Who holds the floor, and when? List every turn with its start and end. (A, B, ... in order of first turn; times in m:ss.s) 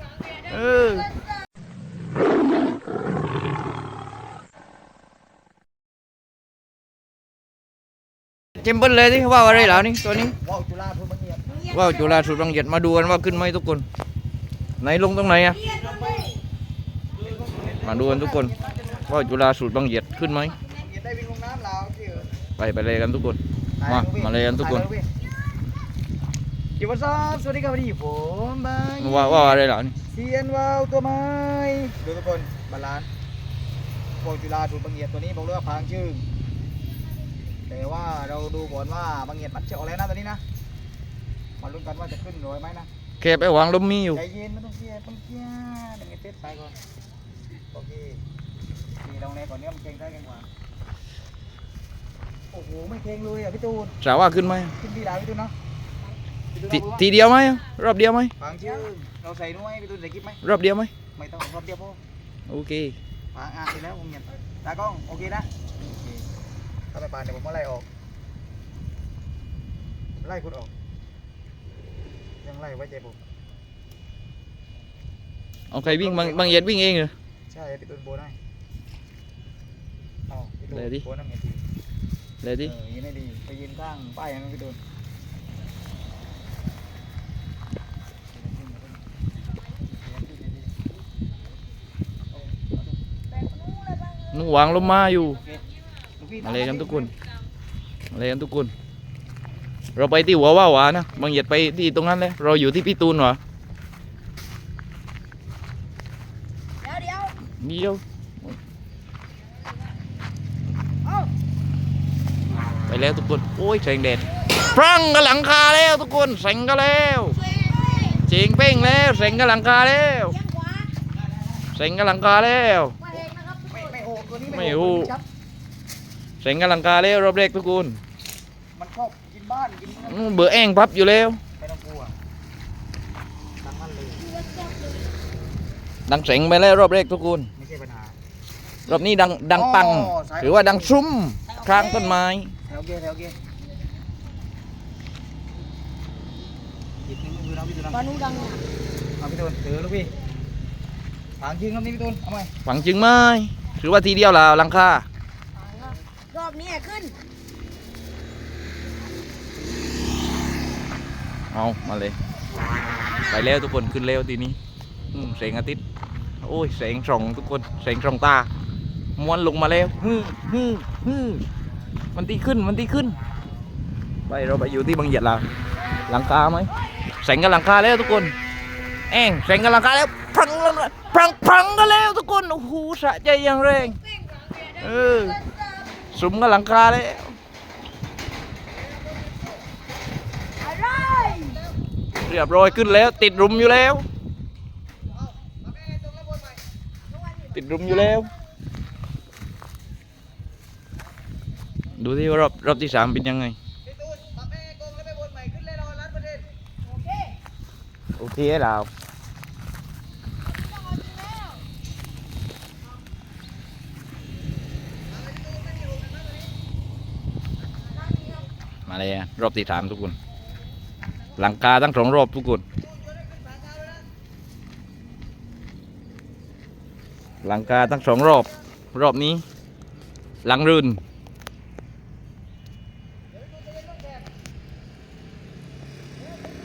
0:00.4-0:01.1 A
0:08.6-0:10.4 A
0:09.4-0:09.9 B
0:10.4-0:11.7 B
0:11.6-0:13.8 A
0:14.8-0:15.8 A
0:15.6-0:16.4 C
0:17.2-0:18.8 B
0:17.8-0:20.6 A
0:20.6-0:22.3 B
0:22.6-0:24.9 A
0:23.8-0:25.1 B
0:26.8-0:33.1 B
0:29.0-0:30.0 A
0:34.2-0:36.2 B
0:37.7-0:40.4 B
0:41.6-0:42.9 B
0:43.2-0:44.2 A
0:44.1-0:46.8 B
0:47.7-0:48.2 B
0:49.0-0:50.5 B
0:52.5-0:54.0 B
0:54.0-0:54.8 A
0:54.7-0:55.5 B
0:56.5-0:57.1 B
0:56.7-0:58.3 A
0:58.4-1:00.4 B
1:00.4-1:00.9 A
1:01.1-1:02.0 B
1:02.5-1:03.0 A
1:03.3-1:06.2 B
1:06.9-1:07.9 B
1:10.2-1:10.7 B
1:12.4-1:13.2 B
1:15.7-1:17.1 A
1:15.8-1:16.6 B
1:17.5-1:18.4 B
1:20.3-1:21.6 B
1:20.7-1:21.0 A
1:22.4-1:22.7 A
1:22.6-1:24.8 B
1:28.3-1:29.0 B
1:30.0-1:30.7 B
1:32.3-1:32.9 B
1:33.4-1:34.3 C
1:34.3-1:35.4 A
1:36.2-1:37.1 B
1:36.4-1:37.1 A
1:38.1-1:38.7 A
1:40.0-1:43.4 A
1:46.8-1:47.4 C
1:47.5-1:48.6 A
1:51.0-1:51.3 C
1:52.9-1:57.4 A
1:57.4-1:58.2 C
1:58.1-2:00.4 A
2:00.4-2:00.9 C
2:01.7-2:03.0 A
2:03.0-2:03.8 C
2:03.7-2:05.2 B
2:04.5-2:05.1 A
2:06.4-2:08.0 A
2:08.8-2:10.6 B
2:10.0-2:11.4 A
2:11.6-2:12.2 B
2:13.6-2:14.3 B
2:14.3-2:15.1 C
2:16.1-2:17.5 A
2:17.6-2:18.2 B
2:18.9-2:22.5 A
2:19.5-2:20.9 B
2:21.5-2:22.1 C
2:22.7-2:23.4 B
2:27.0-2:28.3 B
2:27.9-2:28.6 C
2:29.2-2:30.1 B
2:31.4-2:32.5 B
2:32.6-2:35.1 A
2:35.6-2:37.2 C
2:41.5-2:42.2 A
2:43.2-2:44.6 A
2:45.1-2:45.8 A
2:46.4-2:48.5 A
2:49.2-2:51.4 A
2:52.1-2:53.2 A
2:54.3-2:55.4 A
2:56.0-2:58.3 A
2:59.1-3:04.0 A
3:04.6-3:05.4 A
3:06.1-3:07.4 A
3:10.6-3:11.7 C
3:12.2-3:14.1 A
3:15.5-3:16.6 B
3:17.4-3:18.3 A
3:22.0-3:23.6 A
3:23.9-3:26.5 B
3:26.9-3:27.4 C
3:28.2-3:28.9 A
3:30.6-3:31.6 C
3:38.0-3:38.4 C
3:38.9-3:40.2 A
3:41.4-3:42.6 A
3:47.4-3:49.4 A
3:50.4-3:51.0 A